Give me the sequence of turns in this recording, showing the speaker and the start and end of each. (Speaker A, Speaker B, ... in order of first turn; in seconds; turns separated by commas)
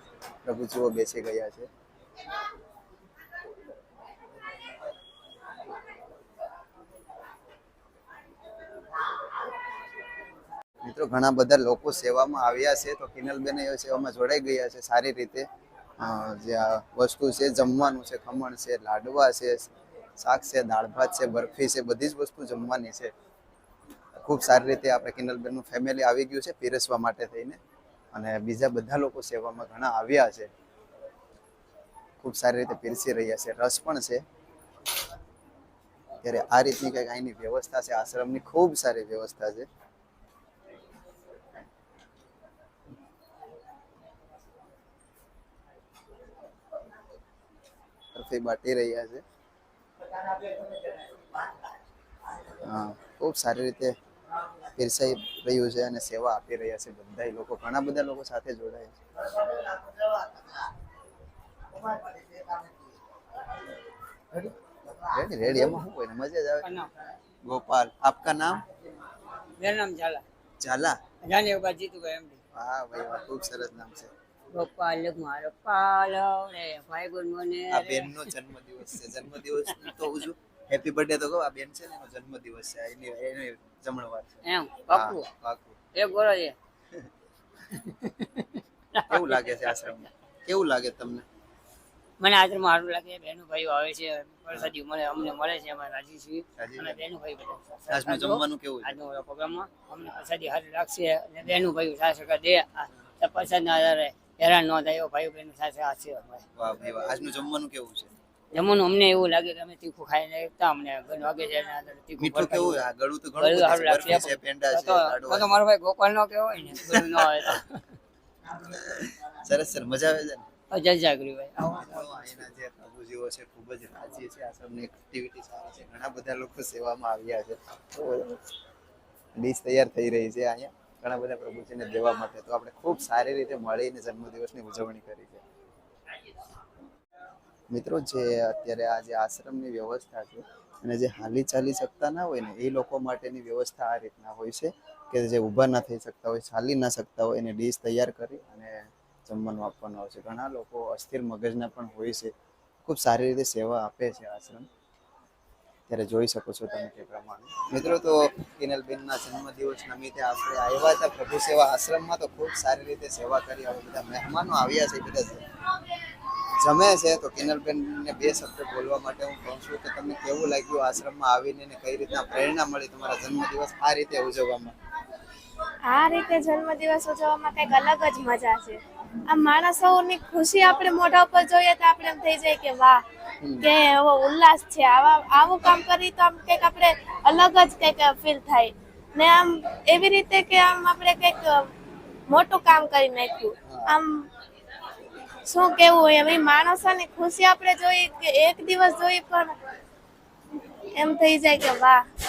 Speaker A: 0.4-1.7, Speaker A: 10.8-15.5, Speaker A: 16.0-23.1, Speaker A: 24.2-27.6, Speaker A: 28.1-30.5, Speaker A: 32.2-34.2, Speaker A: 36.2-39.7, Speaker A: 48.1-49.2, Speaker A: 52.6-54.0, Speaker A: 54.8-59.0, Speaker A: 65.0-66.7, Speaker B: 66.6-66.9, Speaker A: 67.5-68.6, Speaker B: 69.6-70.2, Speaker A: 70.6-71.0, Speaker B: 71.2-72.4, Speaker A: 72.5-74.1, Speaker B: 74.5-78.3, Speaker A: 77.7-85.8, Speaker B: 84.4-85.3, Speaker B: 85.9-86.6, Speaker B: 87.7-89.8, Speaker A: 89.1-91.2, Speaker B: 92.2-106.5, Speaker A: 96.6-97.0, Speaker A: 97.9-99.0, Speaker A: 106.6-108.1, Speaker B: 108.5-112.9, Speaker A: 112.2-115.6, Speaker B: 113.4-117.8, Speaker A: 116.9-117.5, Speaker A: 118.5-120.5, Speaker B: 120.7-122.1, Speaker A: 121.6-128.4, Speaker A: 129.4-135.4, Speaker A: 137.7-152.3, Speaker A: 152.8-154.7, Speaker A: 155.9-165.4, Speaker A: 166.6-174.8, Speaker C: 175.9-183.0, Speaker A: 183.4-183.7, Speaker C: 183.6-191.7, Speaker C: 192.3-194.3, Speaker A: 193.7-194.0, Speaker C: 195.5-199.6, Speaker C: 201.0-202.0